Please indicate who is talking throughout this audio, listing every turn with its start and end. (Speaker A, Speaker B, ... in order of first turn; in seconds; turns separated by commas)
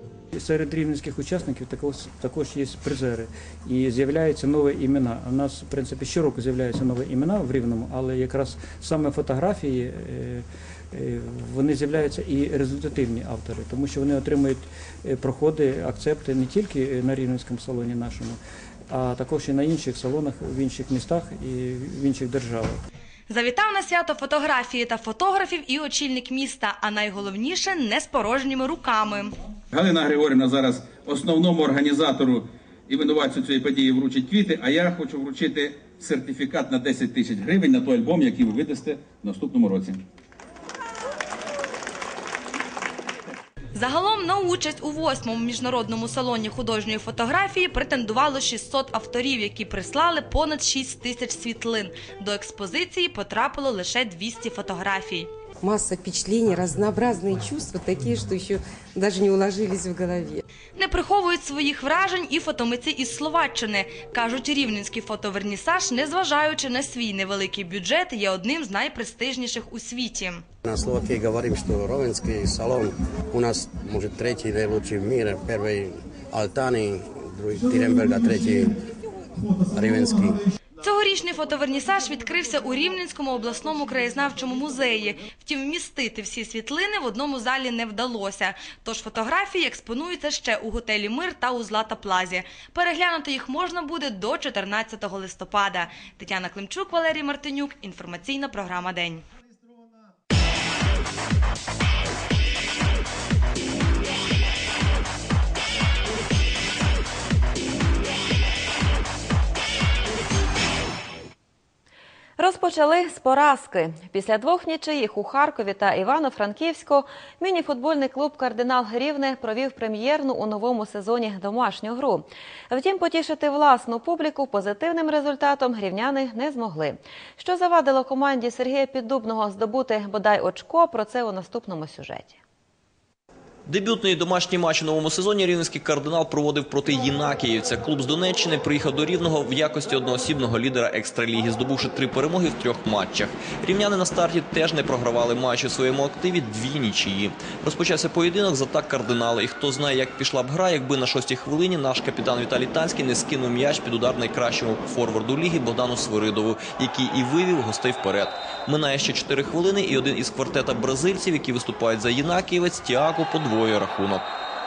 Speaker A: 0.3-18.4, Speaker A: 18.9-22.8, Speaker B: 23.3-29.4, Speaker C: 29.8-30.6, Speaker C: 31.1-32.2, Speaker C: 32.9-35.5, Speaker C: 36.2-38.2, Speaker C: 39.1-39.8, Speaker B: 43.7-55.3, Speaker D: 55.6-60.4, Speaker B: 60.8-70.4, Speaker E: 70.7-78.7, Speaker E: 79.7-80.4, Speaker B: 80.8-99.2, Speaker F: 112.4-132.4, Speaker G: 133.7-164.3